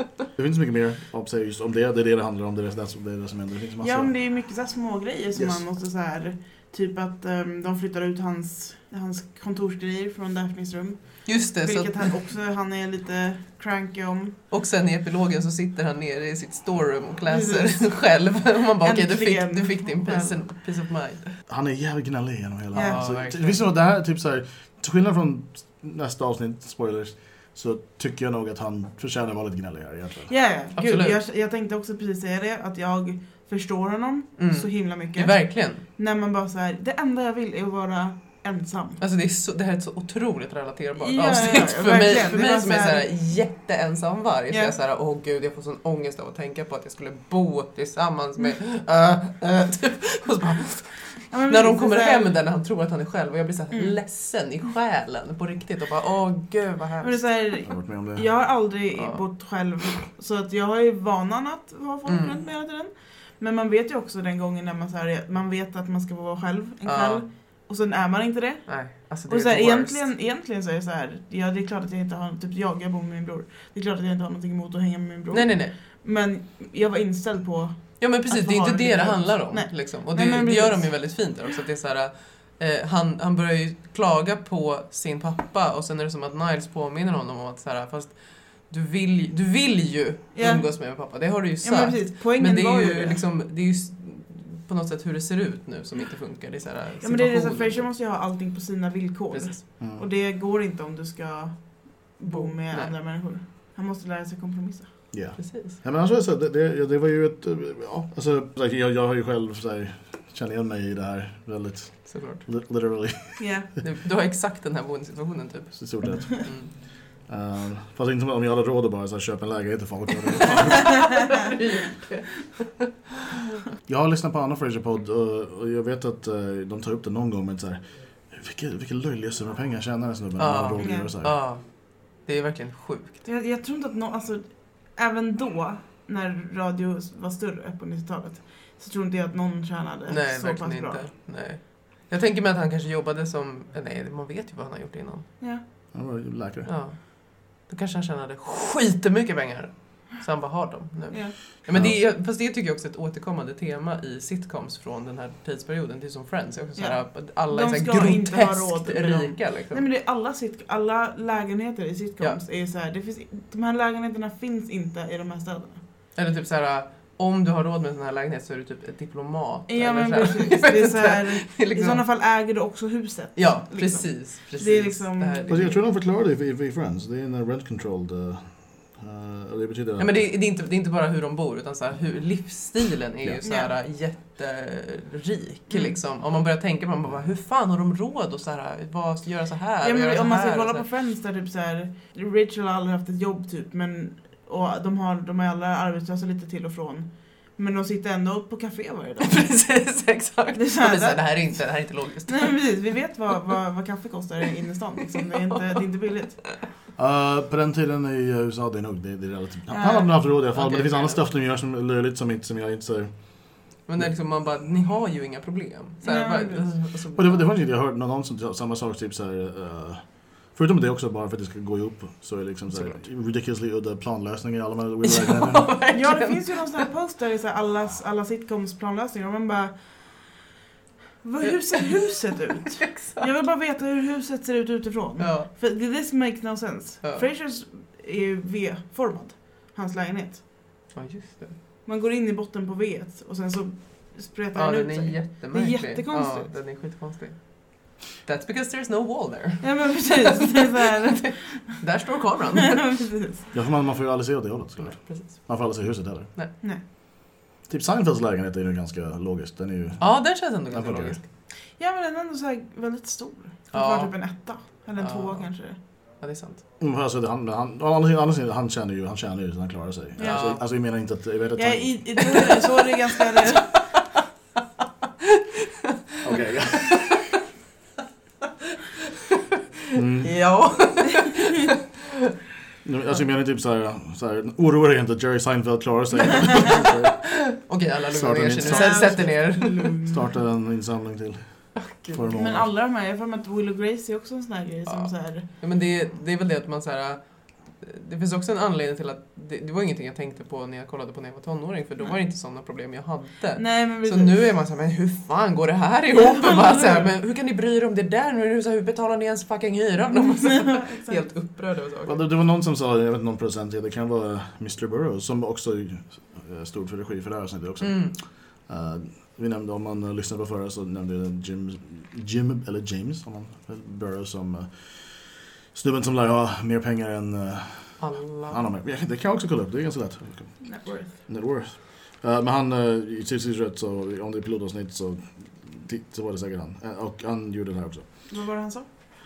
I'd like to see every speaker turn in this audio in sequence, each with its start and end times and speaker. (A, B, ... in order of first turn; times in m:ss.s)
0:00.4-0:04.1 A
0:03.8-0:14.4 B
0:05.4-0:05.6 A
0:11.2-0:12.1 C
0:14.5-0:21.4 C
0:17.3-0:18.1 B
0:18.8-0:20.4 B
0:21.5-0:30.3 A
0:22.7-0:23.0 B
0:22.7-0:23.6 C
0:30.3-0:39.0 B
0:30.7-0:31.2 C
0:34.4-0:35.8 C
0:39.0-0:57.4 C
0:41.0-0:43.1 B
0:44.5-0:44.7 B
0:51.3-0:52.4 B
0:57.0-1:21.3 B
0:57.6-0:58.3 A
1:02.1-1:02.3 C
1:06.8-1:07.3 C
1:08.7-1:10.0 C
1:15.3-1:15.7 C
1:18.0-1:37.9 C
1:30.3-1:33.2 B
1:37.0-1:45.0 B
1:39.3-1:39.6 C
1:39.8-1:40.0 A
1:42.3-1:43.3 C
1:45.1-1:53.6 A
1:45.4-1:45.8 C
1:52.1-1:52.4 C
1:53.4-1:53.7 B
1:53.8-1:56.7 C
1:55.8-2:01.3 A
2:00.7-2:02.8 C
2:03.8-2:11.4 A
2:10.4-2:13.2 C
2:10.8-2:11.1 B
2:13.2-2:21.1 B
2:20.1-2:25.3 C
2:25.9-2:26.7 A
2:26.6-2:39.8 C
2:31.1-2:31.4 B
2:31.7-2:32.0 A
2:36.8-2:45.8 B
2:46.1-2:52.0 C
2:49.7-2:55.8 B
2:53.4-2:55.8 C
2:55.5-3:00.3 A
3:00.0-3:10.8 C
3:03.4-3:03.7 B
3:05.7-3:05.9 B
3:09.8-3:19.6 B
3:19.2-3:22.8 C
3:20.6-3:26.4 B
3:25.1-3:25.4 C
3:27.0-3:34.1 A
3:29.7-3:30.2 B
3:30.5-3:31.2 C
3:33.8-3:37.6 C
3:36.0-3:36.7 B
3:37.1-3:45.8 A
3:42.7-3:43.0 C
3:45.0-3:46.8 C
3:45.9-3:50.4 B
3:51.2-4:00.4 B
3:51.4-3:52.1 C
3:52.8-3:53.2 C
3:55.2-3:55.5 C
4:00.9-4:01.6 C
4:01.8-4:06.5 B
4:04.5-4:13.2 C
4:09.6-4:11.8 B
4:12.8-4:13.4 B
4:13.5-4:16.3 A
4:14.8-4:15.6 C
4:17.6-4:21.2 A
4:20.0-4:21.2 C
4:21.7-4:25.8 B
4:23.7-4:26.6 C
4:26.8-4:32.3 A
4:30.2-4:30.5 B
4:30.2-4:30.6 C
4:31.6-4:33.7 B
4:32.4-4:32.6 C
4:36.2-4:37.2 A
4:39.9-4:40.5 A
4:40.2-4:41.7 C
4:42.8-4:47.5 A
4:46.4-4:49.9 C
4:48.1-4:52.7 A
4:48.6-4:50.3 B
4:51.8-4:52.2 C
4:52.3-4:55.4 B
4:54.8-5:12.2 C
5:03.6-5:04.4 B
5:06.1-5:07.1 B
5:10.1-5:11.2 B
5:12.0-5:38.1 A
5:17.8-5:18.2 C
5:28.0-5:28.6 C
5:30.6-5:31.1 B
5:38.3-5:38.9 B